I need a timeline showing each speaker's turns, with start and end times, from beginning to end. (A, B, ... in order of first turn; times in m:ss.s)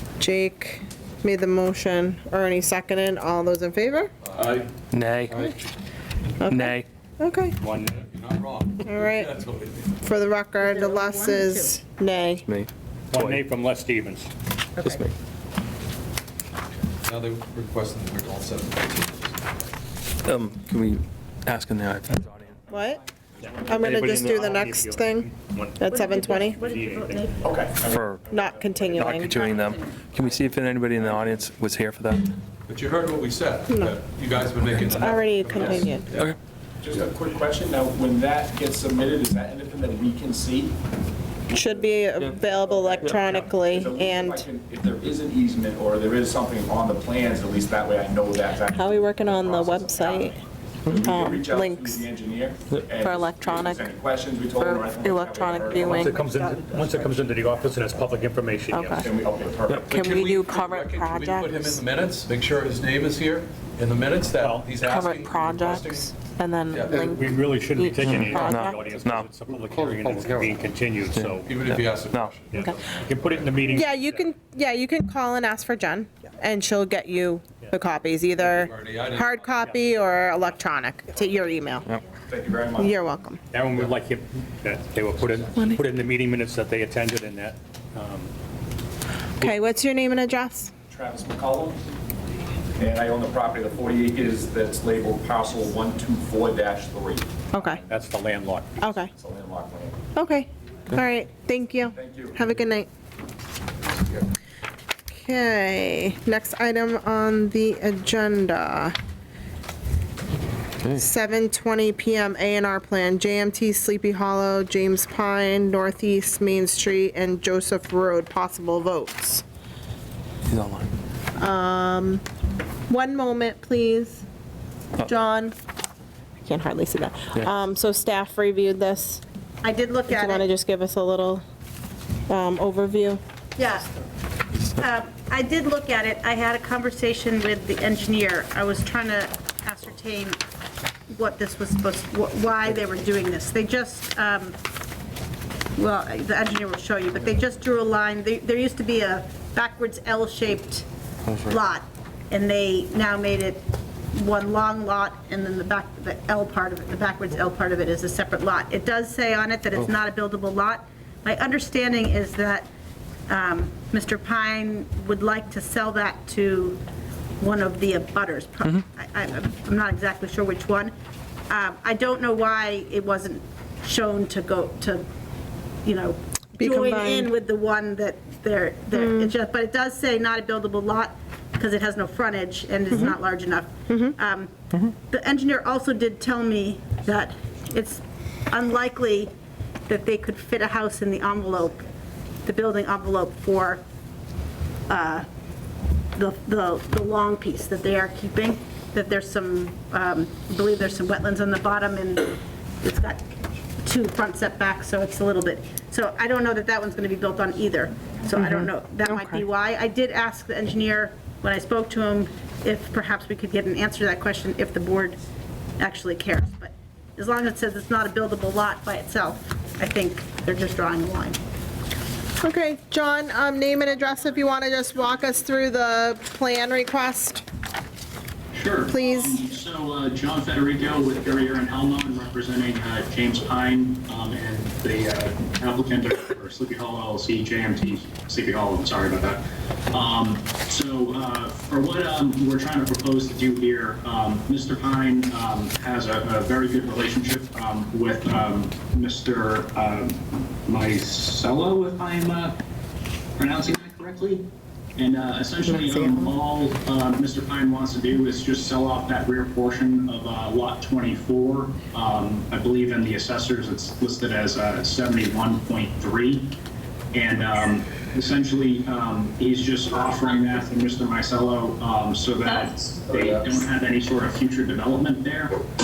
0:00.2-0:04.1 A
0:04.2-0:04.7 B
0:04.9-0:05.5 C
0:05.3-0:05.7 B
0:06.4-0:07.6 A
0:06.5-0:06.9 C
0:07.6-0:08.0 D
0:07.8-0:10.0 B
0:08.8-0:09.3 A
0:10.0-0:12.4 A
0:10.6-0:11.8 E
0:12.4-0:13.4 C
0:13.1-0:14.3 D
0:14.8-0:15.0 E
0:14.8-0:15.1 C
0:17.0-0:19.7 B
0:20.2-0:22.6 C
0:22.7-0:23.9 F
0:22.7-0:23.0 A
0:23.4-0:27.3 D
0:23.7-0:26.7 A
0:23.9-0:24.5 C
0:25.9-0:27.7 E
0:27.4-0:29.5 F
0:27.8-0:28.3 C
0:28.3-0:29.4 A
0:28.9-0:32.4 C
0:29.1-0:30.2 E
0:30.9-0:31.4 F
0:32.7-0:36.3 B
0:33.7-0:34.0 A
0:34.9-0:36.1 A
0:36.1-0:36.4 C
0:36.8-0:40.8 F
0:41.5-0:44.5 A
0:41.5-0:56.3 F
0:43.0-0:43.3 C
0:48.7-0:50.4 A
0:51.0-0:52.1 A
0:53.0-0:53.8 A
0:54.6-0:56.2 A
0:55.8-0:59.1 D
0:58.7-0:59.1 A
0:58.9-1:00.1 F
0:59.7-0:59.9 C
0:59.9-1:06.2 B
0:59.9-1:01.8 A
1:04.3-1:04.8 D
1:04.8-1:08.8 A
1:06.7-1:07.1 B
1:06.8-1:11.5 D
1:08.0-1:09.3 C
1:11.1-1:12.4 C
1:11.4-1:13.9 B
1:12.5-1:14.2 D
1:13.8-1:21.9 A
1:18.4-1:19.5 B
1:22.3-1:23.0 F
1:22.8-1:23.4 A
1:23.5-1:28.3 D
1:25.6-1:25.8 A
1:29.4-1:30.7 A
1:30.9-1:31.8 F
1:32.8-1:37.8 F
1:37.5-1:37.8 A
1:37.9-1:39.0 D
1:38.8-1:39.1 A
1:39.1-1:40.0 F
1:40.2-1:42.9 A
1:42.0-1:42.4 F
1:45.1-1:48.9 A
1:51.0-1:59.4 A
2:00.5-2:00.9 C
2:01.4-2:02.2 A
2:02.9-2:04.2 A
2:05.0-2:05.5 A
2:06.4-2:09.2 A
2:09.6-2:10.5 E
2:10.1-2:11.4 A
2:12.3-2:13.2 A
2:13.6-2:13.9 E
2:14.6-2:20.4 E
2:21.1-2:24.6 E
2:25.8-2:30.9 E
2:31.5-2:42.7 E
2:43.3-2:46.8 E
2:47.4-2:50.9 E
2:51.5-2:55.0 E
2:55.8-3:09.3 E
2:56.6-2:57.3 A
2:58.9-2:59.3 A
3:02.9-3:03.2 A
3:03.9-3:04.1 A
3:09.9-3:11.8 E
3:12.4-3:13.8 E
3:14.9-3:15.3 E
3:16.2-3:23.2 E
3:23.8-3:35.2 E
3:28.4-3:29.4 A
3:35.8-3:41.4 E
3:42.4-3:47.4 A
3:48.5-4:12.6 G
3:48.9-3:49.4 A
4:13.4-4:26.6 G
4:15.7-4:16.3 A
4:27.1-4:35.6 G